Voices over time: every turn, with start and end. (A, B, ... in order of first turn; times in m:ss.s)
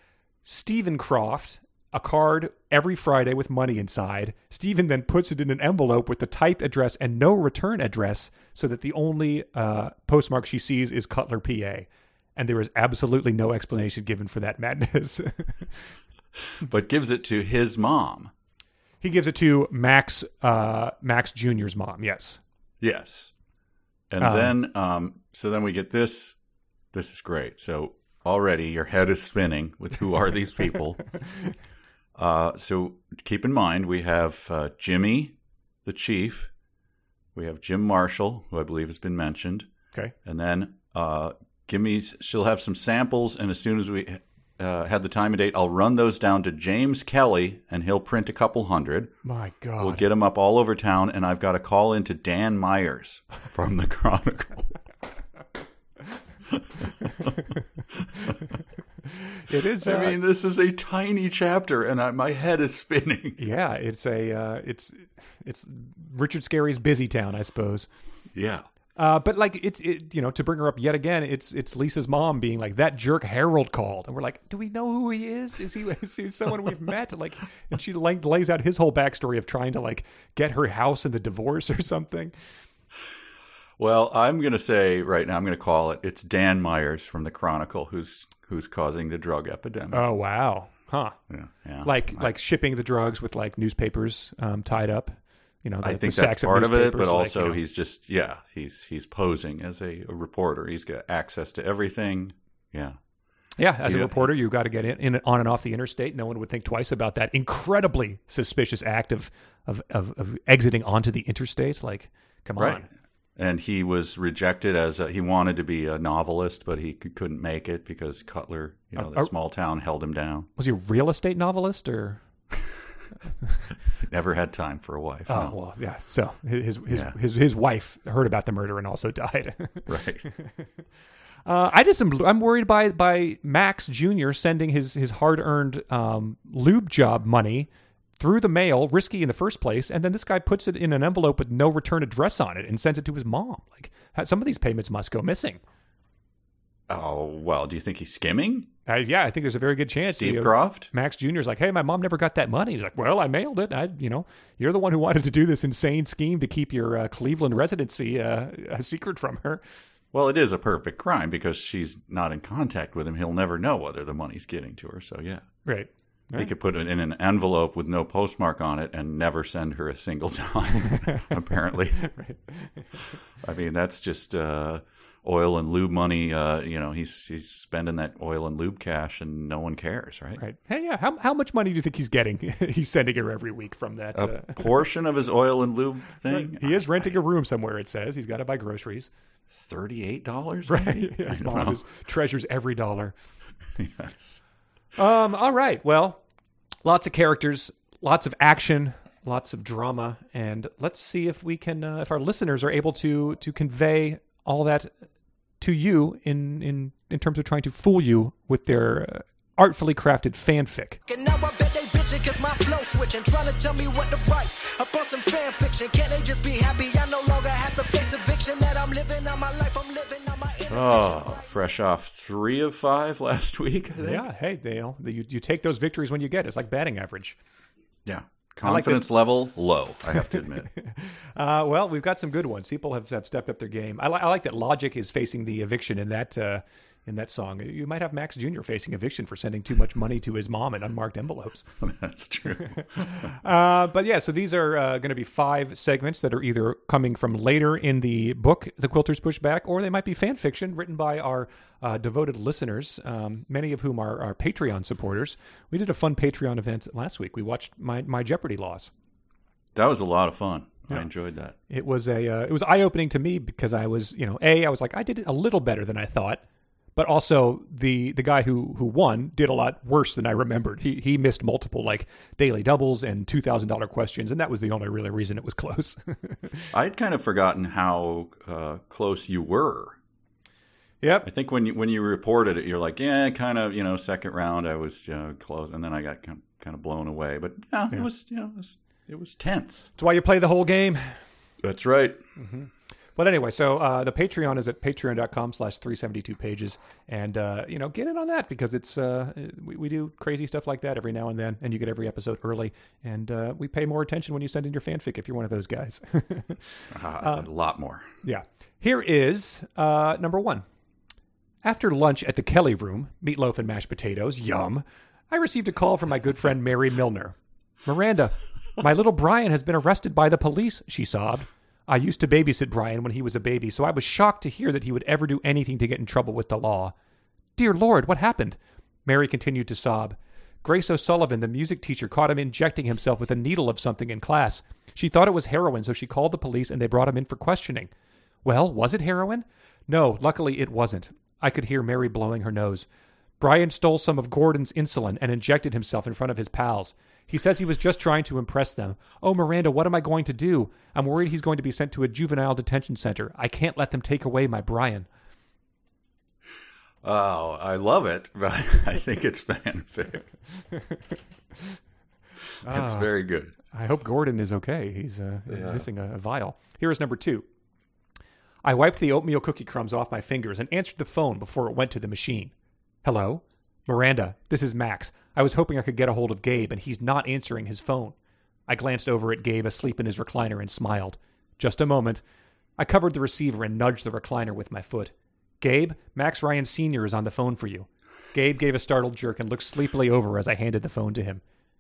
0:00.4-0:15.7 A
0:16.6-0:18.3 B
0:19.0-0:22.4 A
0:22.8-0:23.3 B
0:24.1-0:26.4 B
0:24.2-0:24.6 A
0:26.9-0:31.2 B
0:32.2-0:36.5 B
0:37.4-0:39.7 B
0:40.2-0:49.1 B
0:49.2-0:50.0 A
0:49.8-0:54.8 B
0:56.5-0:57.3 B
0:59.5-1:00.2 A
0:59.8-1:03.4 B
1:03.4-1:07.9 A
1:08.3-1:08.7 B
1:09.0-1:22.3 A
1:23.8-1:30.1 B
1:29.9-1:31.2 A
1:31.3-1:32.3 B
1:31.8-1:37.6 A
1:35.8-1:43.0 B
1:43.6-1:52.9 A
1:43.8-1:44.3 B
1:52.6-2:00.5 B
1:59.0-1:59.3 A
2:00.6-2:02.2 A
2:04.0-2:05.6 B
2:05.3-2:10.6 A
2:06.9-2:07.2 B
2:09.9-2:10.2 B
2:11.5-2:25.6 A
2:26.9-2:28.7 B
2:28.9-2:39.6 A
2:30.1-2:30.9 B
2:40.1-2:45.4 B
2:45.6-2:46.5 A
2:46.4-2:52.1 B
2:52.0-2:52.9 A
2:53.4-3:00.4 B
3:00.4-3:04.9 A
3:04.1-3:07.2 B
3:06.3-3:09.1 A
3:09.6-3:11.8 B
3:10.7-3:13.2 A
3:13.8-3:14.4 B
3:15.0-3:16.2 A
3:16.8-3:24.9 A
3:25.6-3:31.0 A
3:31.1-3:41.4 C
3:40.7-3:44.2 B
3:44.0-3:47.4 A
3:48.0-3:50.7 B
3:48.6-3:49.1 A
3:50.3-4:01.7 A
4:01.8-4:03.3 B
4:02.8-4:18.9 A
4:19.8-4:21.6 B
4:21.7-4:26.4 A
4:27.0-4:36.7 A
4:36.7-4:40.0 B
4:41.0-4:41.3 A
4:41.2-4:49.9 B
4:50.0-4:51.2 A
4:51.6-4:52.2 B
4:52.4-5:07.5 A
5:06.9-5:08.1 B
5:08.2-5:10.6 A
5:11.6-5:26.9 A
5:27.6-5:37.9 A
5:38.4-5:42.9 A
5:43.4-5:55.1 A
5:57.0-6:00.3 B
6:02.6-6:03.1 A
6:02.7-6:03.5 B
6:03.7-6:07.4 A
6:05.5-6:05.9 B
6:08.6-6:12.5 A
6:13.0-6:18.2 A
6:18.7-6:22.2 A
6:22.8-6:31.4 A